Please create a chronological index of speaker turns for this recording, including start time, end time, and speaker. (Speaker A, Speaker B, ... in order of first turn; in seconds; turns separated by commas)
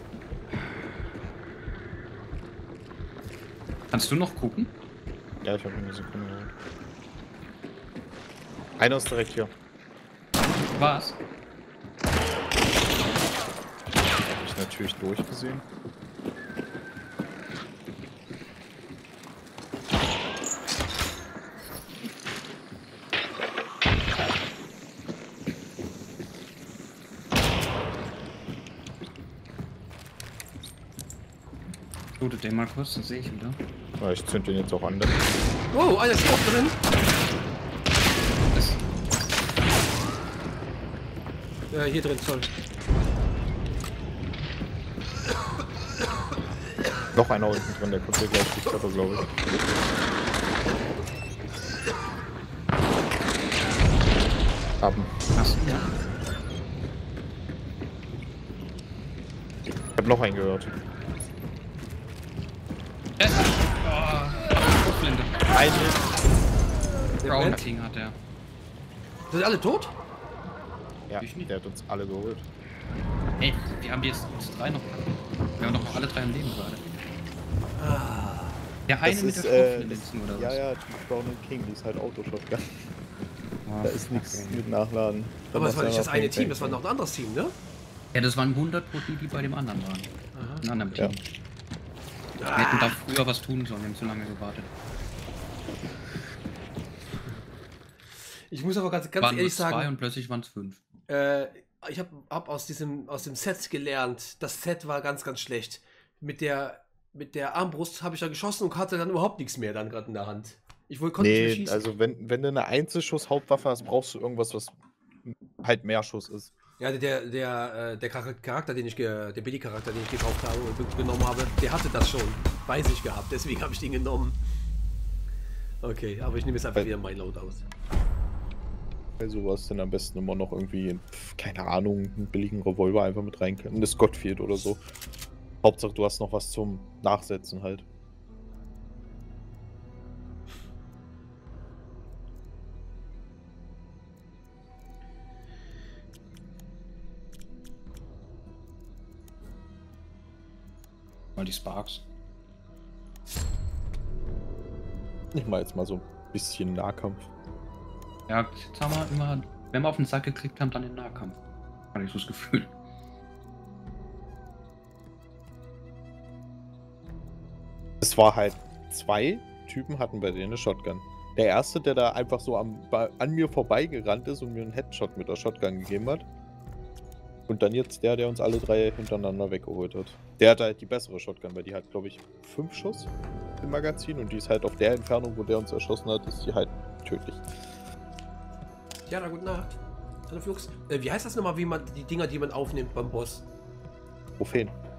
Speaker A: 3.9-4.7, Speaker B: 5.4-6.5, Speaker B: 8.8-9.5, Speaker A: 10.8-11.2, Speaker B: 14.3-15.7, Speaker A: 32.2-33.6, Speaker B: 34.0-35.2, Speaker C: 35.7-36.8, Speaker A: 38.5-38.8, Speaker C: 41.7-42.5, Speaker B: 47.1-49.3, Speaker B: 54.8-55.2, Speaker A: 55.4-55.9, Speaker B: 60.0-60.8, Speaker A: 63.2-65.6, Speaker B: 65.5-66.0, Speaker C: 67.2-67.6, Speaker A: 67.3-68.2, Speaker C: 69.3-70.0, Speaker B: 71.1-72.5, Speaker A: 71.2-71.5, Speaker A: 73.4-76.8, Speaker C: 77.8-78.7, Speaker A: 78.9-80.6, Speaker B: 79.0-82.9, Speaker A: 83.6-84.6, Speaker B: 83.8-86.8, Speaker C: 85.5-87.6, Speaker A: 88.1-91.2, Speaker C: 90.3-91.1, Speaker C: 92.4-93.0, Speaker A: 92.5-94.7, Speaker C: 98.5-99.9, Speaker A: 99.2-100.8, Speaker C: 101.1-111.8, Speaker B: 111.2-116.5, Speaker C: 116.8-124.4, Speaker C: 125.8-127.7, Speaker B: 129.2-134.8, Speaker B: 135.6-137.8, Speaker A: 151.4-152.0, Speaker B: 155.3-157.3, Speaker A: 158.3-161.4, Speaker A: 161.9-162.7, Speaker B: 168.0-176.3, Speaker B: 177.5-187.5, Speaker C: 189.1-193.5, Speaker B: 194.4-194.8